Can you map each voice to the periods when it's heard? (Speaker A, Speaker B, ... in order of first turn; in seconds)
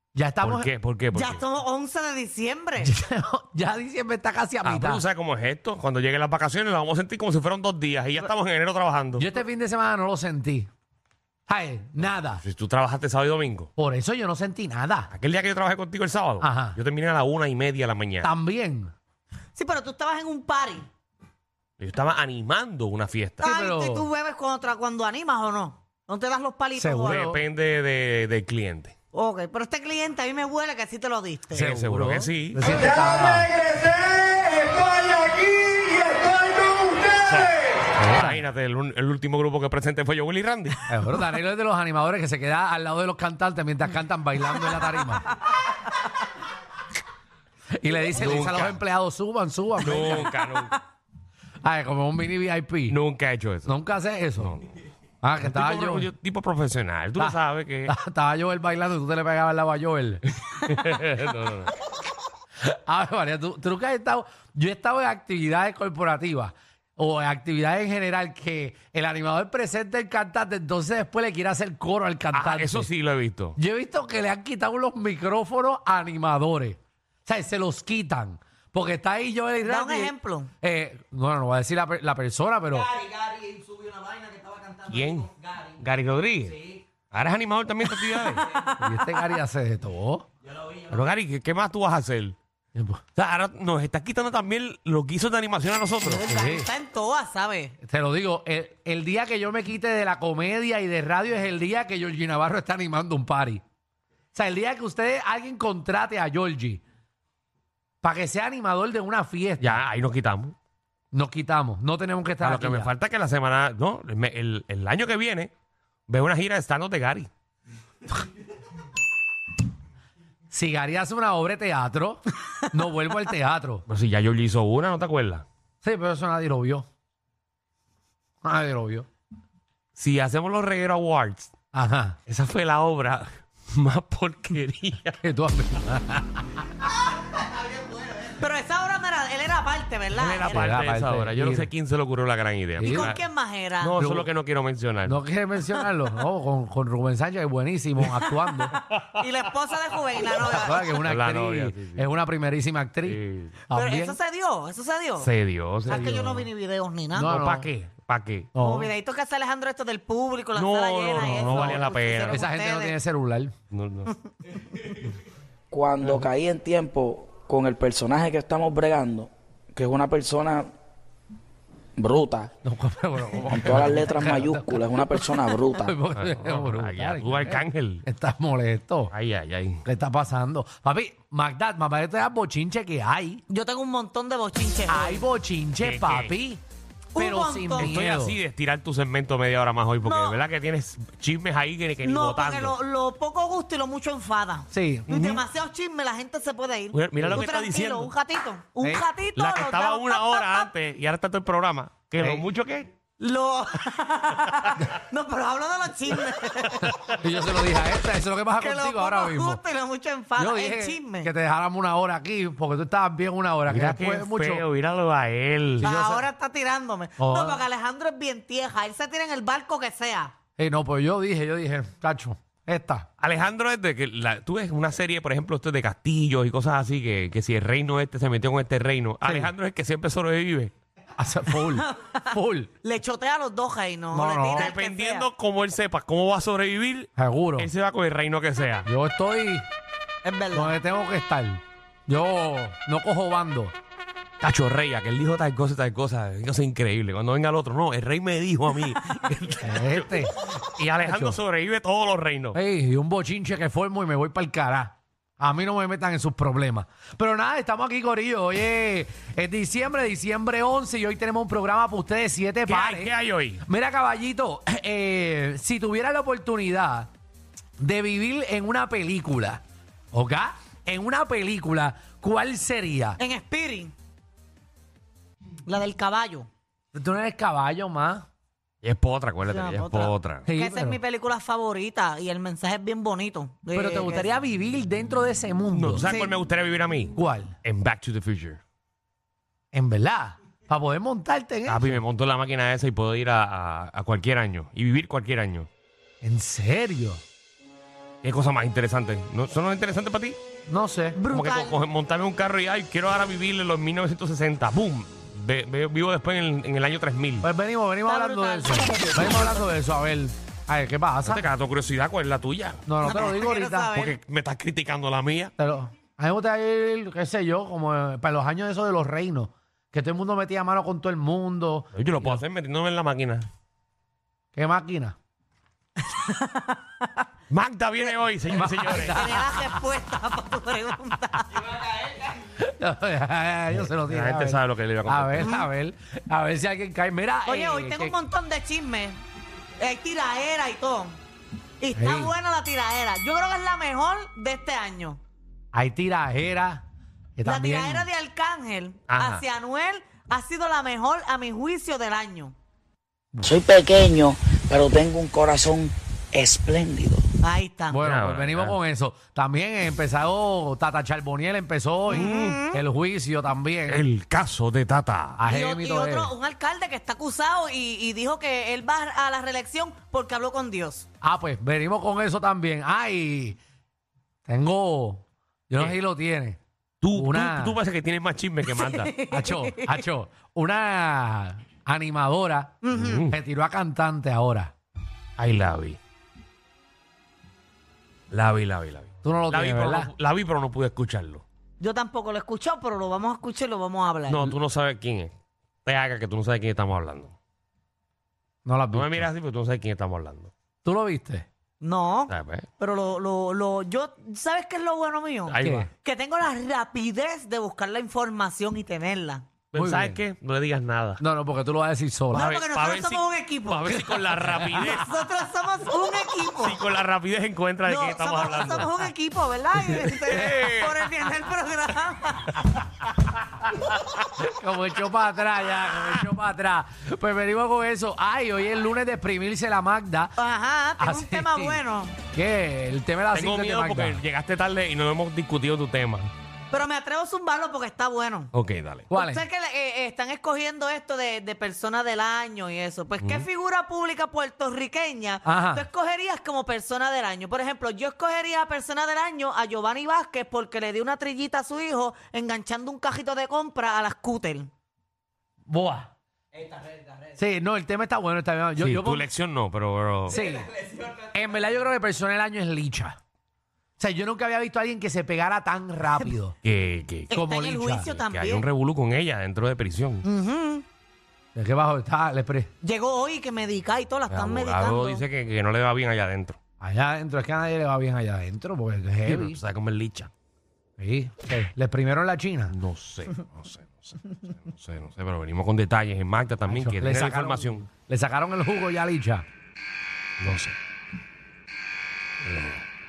Speaker A: 0.1-0.7, 2.8-5.0, 9.2-10.7, 11.5-12.4, 13.8-15.1, 16.4-16.8, 18.2-18.9, 23.4-24.1, 26.8-27.4, 31.5-33.6, 38.0-38.5, 40.9-45.4, 47.8-50.4, 51.6-53.0, 53.7-54.5, 55.2-56.1, 57.2-60.2, 62.6-72.9, 73.6-82.9, 88.8-90.3, 92.8-93.0, 96.2-96.7, 97.8-103.6, 104.3-106.8, 108.0-109.8, 111.1-112.9, 120.5-123.8, 125.8-126.9, 128.4-129.1, 131.7-132.2, 135.1-136.5, 140.5-141.7, 142.8-143.2, 144.0-144.3, 145.1-148.7, 150.4-154.2, 155.9-156.4, 157.1-157.7, 158.5-158.9, 161.2-163.6, 172.6-179.1, 179.8-183.4, 184.9-186.6, 187.2-188.4, 194.7-195.1, 198.8-199.1, 202.2-202.4, 206.8-209.6, 210.4-214.7, 215.8-216.3, 217.2-217.6, 220.6-223.1, 229.2-229.5, 231.2-232.7, 234.1-234.7, 237.2-237.7, 238.9-239.7, 240.5-243.7, 249.6-250.4, 251.0-251.4, 252.5-263.1, 263.6-267.1, 267.8-269.6, 270.1-273.2, 276.9-278.3, 280.5-281.0, 283.7-286.1, 287.2-287.6, 289.7-292.0, 296.2-297.2, 300.7-301.2, 307.4-311.5, 312.9-313.9, 315.6-322.4, 324.5-325.2, 328.5-329.8, 332.4-338.2, 341.9-342.4, 345.7-346.8, 347.4-348.1, 357.9-364.1, 365.4-366.3, 371.2-373.6, 374.5-376.6, 377.1-377.8, 379.3-384.7, 389.2-390.1, 398.6-399.3, 400.9-401.5, 405.6-405.9, 409.7-410.2, 411.2-412.5, 414.4-414.8, 424.4-430.4, 431.0-431.8, 432.3-434.2, 439.1-439.4, 445.4-445.9, 455.7-456.1, 457.4-459.3, 460.3-463.2, 464.0-466.6, 467.3-468.1, 471.6-472.7, 476.8-479.6, 481.0-482.8, 486.7-489.4
Speaker B: 0.4-1.4, 4.6-9.3, 12.4-13.7, 15.1-18.3, 21.8-23.5, 27.1-28.9, 31.5-32.8, 37.0-40.9, 48.1-48.8, 49.8-50.8, 52.9-53.8, 54.4-54.8, 55.4-57.9, 60.4-61.8, 72.3-73.6, 84.8-88.6, 90.8-92.4, 93.2-96.3, 109.6-110.5, 112.4-115.5, 116.1-117.3, 123.9-125.5, 130.0-131.5, 132.3-135.2, 140.1-143.2, 143.8-145.2, 148.7-149.2, 151.0-152.1, 153.1-153.6, 155.2-156.5, 157.2-158.5, 160.6-162.4, 163.7-164.1, 176.2-178.0, 179.1-179.8, 185.8-186.4, 187.8-192.8, 195.1-195.4, 196.9-198.1, 199.4-202.9, 213.7-215.9, 223.2-230.7, 234.5-238.9, 244.4-252.6, 262.7-263.6, 278.8-280.5, 285.7-288.6, 291.7-295.7, 298.2-300.4, 301.3-307.5, 311.2-312.8, 313.9-315.5, 321.9-323.5, 327.5-329.3, 333.7-335.5, 349.1-349.4, 358.0-358.8, 362.1-362.6, 363.9-365.4, 377.0-379.1, 382.9-383.4, 385.4-386.0, 388.3-391.4, 394.3-395.3, 395.9-397.4, 398.9-400.5, 402.3-402.7, 405.5-405.9, 409.7-411.2, 412.3-415.3, 416.5-419.1, 419.8-421.1, 433.3-436.3, 438.5-439.1, 443.2-443.5, 458.8-460.4, 466.6-467.3, 468.1-470.2, 474.3-476.6, 479.2-480.3, 482.7-487.9, 490.4-490.8, 492.4-492.8
Speaker C: 1.1-2.9, 19.6-20.9, 23.4-27.2, 29.1-31.7, 79.7-80.5, 96.0-97.8, 138.2-140.7, 142.8-144.0, 149.2-151.0, 153.7-155.3, 155.9-157.3, 158.6-163.0, 183.5-185.2, 187.2-188.0, 190.0-190.4, 192.0-200.7, 203.2-206.9, 208.6-211.3, 215.8-220.3, 231.8-232.2, 232.8-235.3, 240.2-240.8, 273.2-273.9, 275.6-276.5, 279.5-284.4, 286.0-286.3, 301.1-301.8, 308.1-309.7, 313.0-314.2, 326.1-326.8, 328.9-331.7, 335.4-335.7, 337.4-339.2, 339.8-341.2, 341.8-345.2, 347.4-352.6, 357.4-358.0, 362.1-362.8, 365.5-371.1, 378.7-380.0, 382.8-383.2, 391.8-394.5, 401.8-409.4, 412.3-414.0, 414.7-416.8, 417.9-422.6, 430.4-432.2, 436.7-438.5, 439.1-454.7, 467.3-468.7, 470.2-470.9, 472.8-475.2
Speaker D: 165.7-170.7, 172.0-172.5, 173.5-176.0, 353.4-357.2